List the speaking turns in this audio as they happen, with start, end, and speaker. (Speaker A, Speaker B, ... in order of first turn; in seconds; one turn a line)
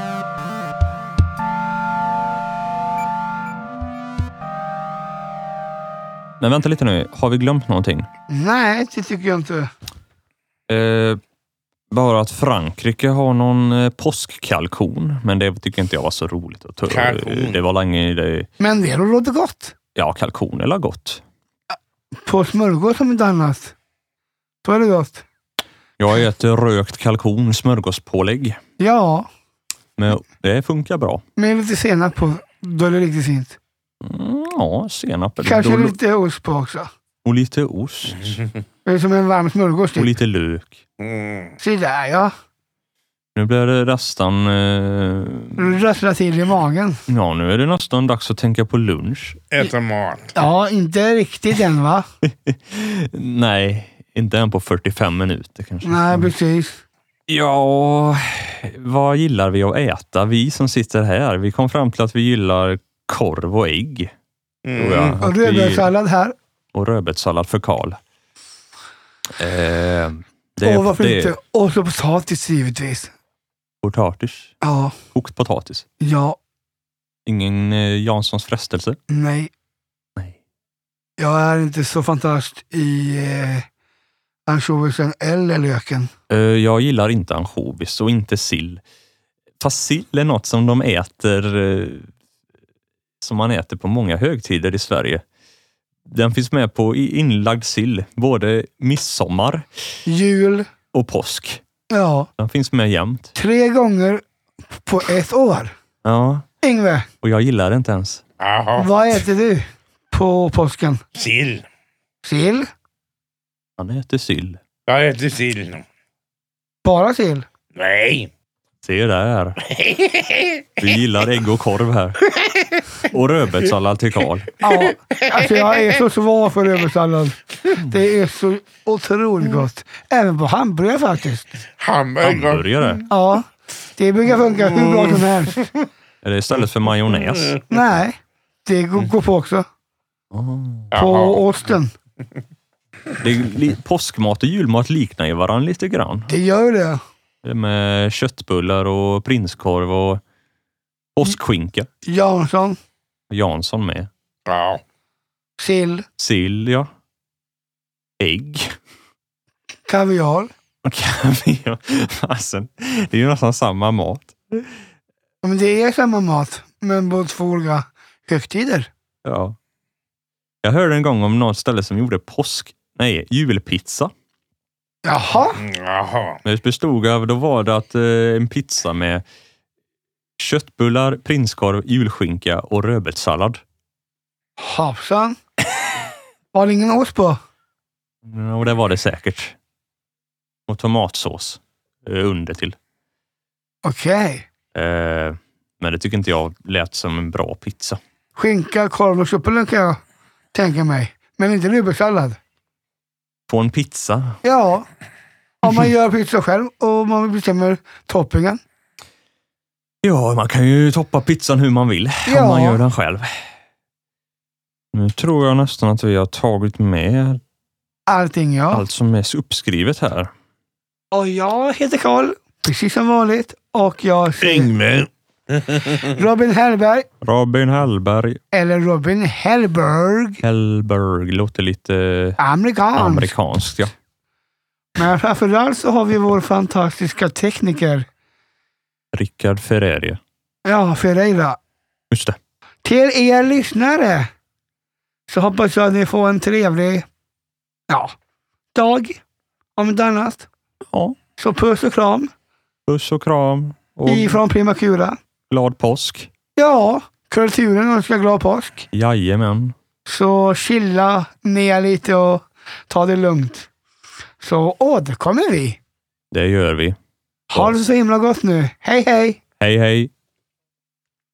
Speaker A: 6.4-8.1
Speaker B: 8.3-9.7
Speaker A: 10.7-11.2
Speaker A: 11.9-18.5
Speaker C: 16.9-17.6
Speaker B: 18.6-19.7
Speaker A: 19.9-21.2
Speaker B: 22.1-23.7
Speaker B: 24.6-25.2
Speaker A: 26.0-28.6
Speaker B: 28.8-29.3
Speaker A: 30.0-31.2
Speaker B: 31.4-33.6
Speaker A: 34.0-35.9
Speaker B: 35.4-36.9
Speaker A: 37.2-38.4
Speaker B: 38.8-40.1
Speaker A: 39.9-40.8
Speaker C: 41.0-41.5
Speaker B: 41.6-42.3
Speaker A: 43.3-45.8
Speaker B: 45.6-47.0
Speaker A: 47.1-49.4
Speaker C: 49.5-50.3
Speaker B: 50.3-52.0
Speaker A: 52.2-56.3
Speaker B: 55.8-56.8
Speaker A: 57.3-64.1
Speaker C: 64.6-65.2
Speaker A: 64.8-65.9
Speaker B: 65.2-66.3
Speaker A: 66.7-68.0
Speaker A: 69.4-71.3
Speaker B: 70.6-73.1
Speaker A: 73.8-74.5
Speaker B: 74.6-74.9
Speaker A: 75.1-75.8
Speaker B: 76.0-76.4
Speaker A: 77.2-79.0
Speaker B: 79.1-79.5
Speaker B: 81.2-83.7
Speaker B: 84.5-86.1
Speaker A: 86.3-88.8
Speaker A: 89.6-92.1
Speaker A: 93.2-95.2
Speaker A: 96.0-99.7
Speaker B: 100.0-100.7
Speaker A: 100.9-101.6
Speaker B: 101.9-102.3
Speaker A: 102.4-103.3
Speaker B: 103.3-104.2
Speaker B: 104.7-105.7
Speaker A: 106.0-106.4
Speaker B: 106.6-107.1
Speaker A: 107.2-108.2
Speaker C: 108.4-108.9
Speaker B: 108.8-111.0
Speaker C: 111.2-111.6
Speaker B: 112.2-112.7
Speaker A: 113.8-114.6
Speaker C: 114.9-115.8
Speaker B: 116.8-117.5
Speaker C: 117.8-118.3
Speaker A: 118.8-119.6
Speaker C: 119.7-120.6
Speaker A: 120.8-122.3
Speaker A: 123.1-124.5
Speaker B: 124.6-131.5
Speaker C: 131.8-132.9
Speaker A: 132.2-133.1
Speaker B: 133.1-135.7
Speaker A: 136.2-137.6
Speaker B: 137.7-139.6
Speaker A: 140.3-140.9
Speaker C: 140.9-141.4
Speaker B: 140.9-141.9
Speaker A: 143.2-146.3
Speaker B: 146.3-147.0
Speaker A: 147.4-150.2
Speaker A: 151.2-151.9
Speaker B: 152.0-152.8
Speaker A: 153.3-154.1
Speaker C: 154.5-154.8
Speaker B: 155.6-156.0
Speaker A: 156.2-156.9
Speaker A: 158.2-158.7
Speaker B: 159.8-160.5
Speaker A: 160.8-164.6
Speaker B: 165.4-168.9
Speaker A: 169.2-169.6
Speaker A: 170.6-174.1
Speaker B: 175.0-175.6
Speaker C: 175.6-176.4
Speaker A: 176.4-179.2
Speaker A: 180.4-183.6
Speaker B: 184.6-185.4
Speaker B: 186.5-187.4
Speaker A: 188.2-189.6
Speaker A: 190.7-192.8
Speaker B: 193.8-194.5
Speaker A: 194.7-198.0
Speaker B: 198.3-200.0
Speaker B: 200.5-202.4
Speaker A: 203.5-204.4
Speaker B: 204.4-204.8
Speaker B: 205.6-208.6
Speaker A: 210.0-213.3
Speaker B: 212.2-212.8
Speaker A: 214.9-217.4
Speaker B: 218.1-218.8
Speaker A: 218.7-220.3
Speaker B: 221.1-224.7
Speaker C: 224.4-225.8
Speaker B: 226.0-227.1
Speaker A: 227.2-228.4
Speaker B: 228.5-230.4
Speaker A: 230.4-232.4
Speaker B: 232.4-233.3
Speaker A: 232.9-233.9
Speaker B: 234.9-238.1
Speaker A: 239.1-240.2
Speaker B: 240.6-241.6
Speaker A: 242.1-242.4
Speaker B: 242.8-244.3
Speaker B: 245.3-247.1
Speaker B: 247.9-248.1
Speaker B: 248.7-249.2
Speaker B: 249.8-250.5
Speaker B: 251.4-252.3
Speaker A: 252.9-254.4
Speaker B: 254.1-255.2
Speaker A: 255.5-256.3
Speaker B: 256.6-258.9
Speaker A: 258.9-259.7
Speaker B: 260.1-263.7
Speaker B: 264.4-265.8
Speaker A: 266.3-266.9
Speaker B: 267.5-269.4
Speaker A: 269.6-270.1